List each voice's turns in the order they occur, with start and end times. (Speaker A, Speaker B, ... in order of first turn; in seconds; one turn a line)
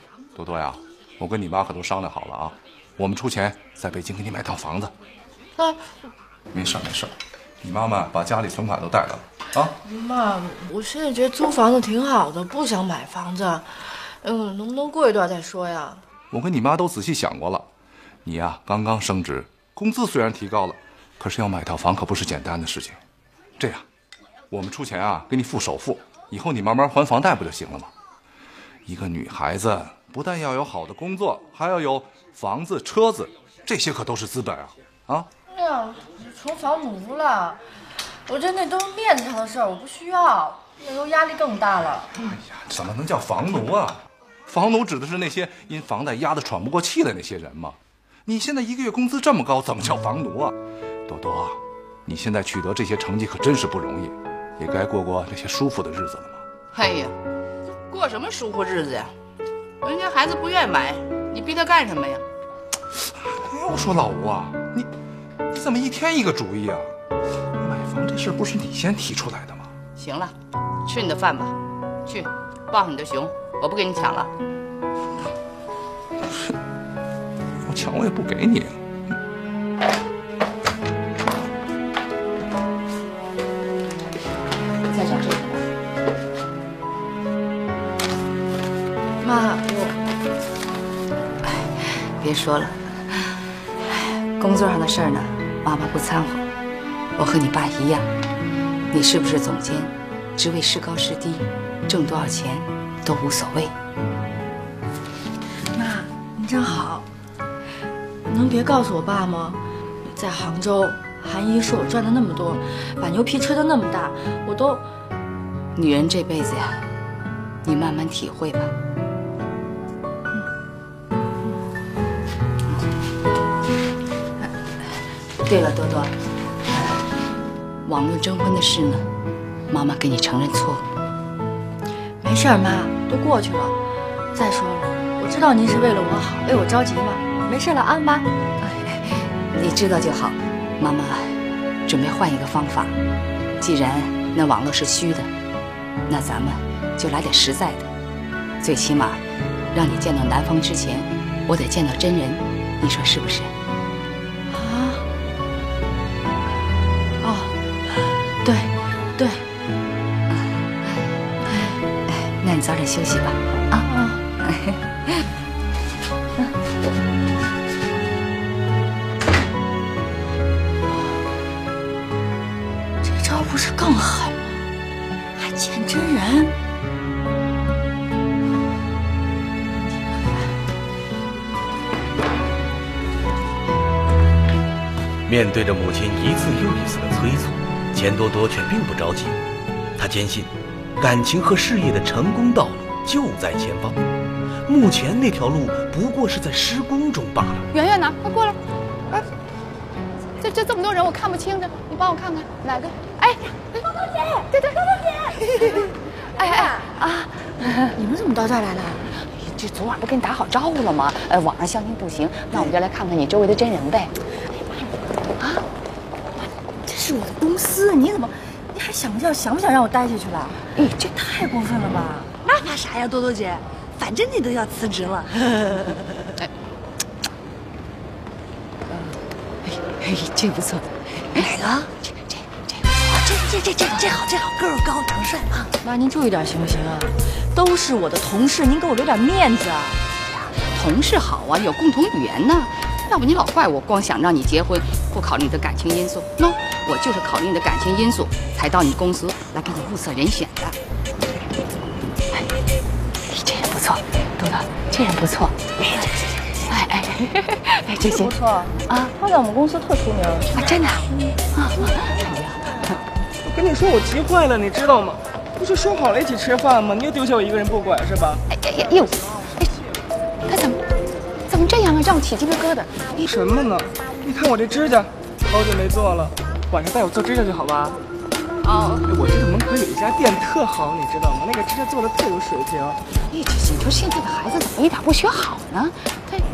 Speaker A: 0.4-4.9
Speaker A: 6.5-9.8
Speaker B: 9.8-16.0
Speaker A: 16.3-17.7
Speaker A: 18.2-23.0
Speaker A: 23.6-23.9
Speaker A: 24.5-27.9
Speaker A: 28.9-35.3
Speaker B: 35.5-37.6
Speaker B: 38.3-42.1
Speaker A: 42.2-50.5
Speaker A: 51.1-56.4
Speaker C: 56.7-57.2
Speaker C: 57.9-59.1
Speaker C: 59.8-62.2
Speaker A: 63.1-64.9
Speaker A: 65.5-66.9
Speaker A: 67.6-69.7
Speaker C: 70.0-70.3
Speaker C: 70.9-71.5
Speaker C: 72.1-74.3
Speaker A: 77.6-78.8
Speaker C: 84.9-85.6
Speaker B: 89.2-90.0
Speaker C: 91.4-96.5
Speaker C: 97.2-98.1
Speaker C: 98.9-103.7
Speaker B: 105.8-107.1
Speaker B: 108.3-109.6
Speaker B: 110.1-114.9
Speaker C: 115.8-116.8
Speaker C: 117.6-118.7
Speaker C: 124.4-126.1
Speaker C: 126.7-127.1
Speaker C: 127.9-129.1
Speaker C: 129.7-130.8
Speaker B: 132.2-133.8
Speaker B: 134.3-138.3
Speaker C: 138.6-142.9
Speaker C: 143.6-145.3
Speaker C: 146.1-147.9
Speaker C: 148.6-149.2
Speaker C: 149.7-153.5
Speaker B: 154.5-155.1
Speaker B: 157.2-157.5
Speaker B: 158.4-159.4
Speaker C: 160.3-163.9
Speaker B: 163.8-164.2
Speaker C: 164.4-165.2
Speaker B: 173.0-174.6
Speaker B: 175.4-176.5
Speaker D: 185.3-189.4
Speaker D: 190.0-194.0
Speaker D: 194.7-197.7
Speaker C: 197.7-198.6
Speaker C: 200.4-203.8
Speaker C: 204.5-205.8
Speaker C: 206.4-208.0
Speaker B: 207.9-209.1
Speaker C: 209.2-214.1
Speaker B: 216.9-222.3
Speaker C: 220.8-221.1
Speaker E: 222.4-225.9
Speaker C: 229.7-231.4
Speaker E: 231.4-231.9
Speaker C: 232.0-233.2
Speaker E: 233.1-235.7
Speaker B: 235.8-240.0
Speaker C: 240.2-250.8
Speaker C: 253.3-255.7
Speaker C: 256.7-258.3
Speaker B: 258.0-260.6
Speaker C: 260.5-263.0
Speaker F: 263.4-268.4
Speaker C: 268.5-269.8
Speaker C: 270.5-270.8
Speaker C: 271.5-273.1
Speaker F: 273.2-278.0
Speaker F: 279.0-283.0
Speaker C: 283.3-286.4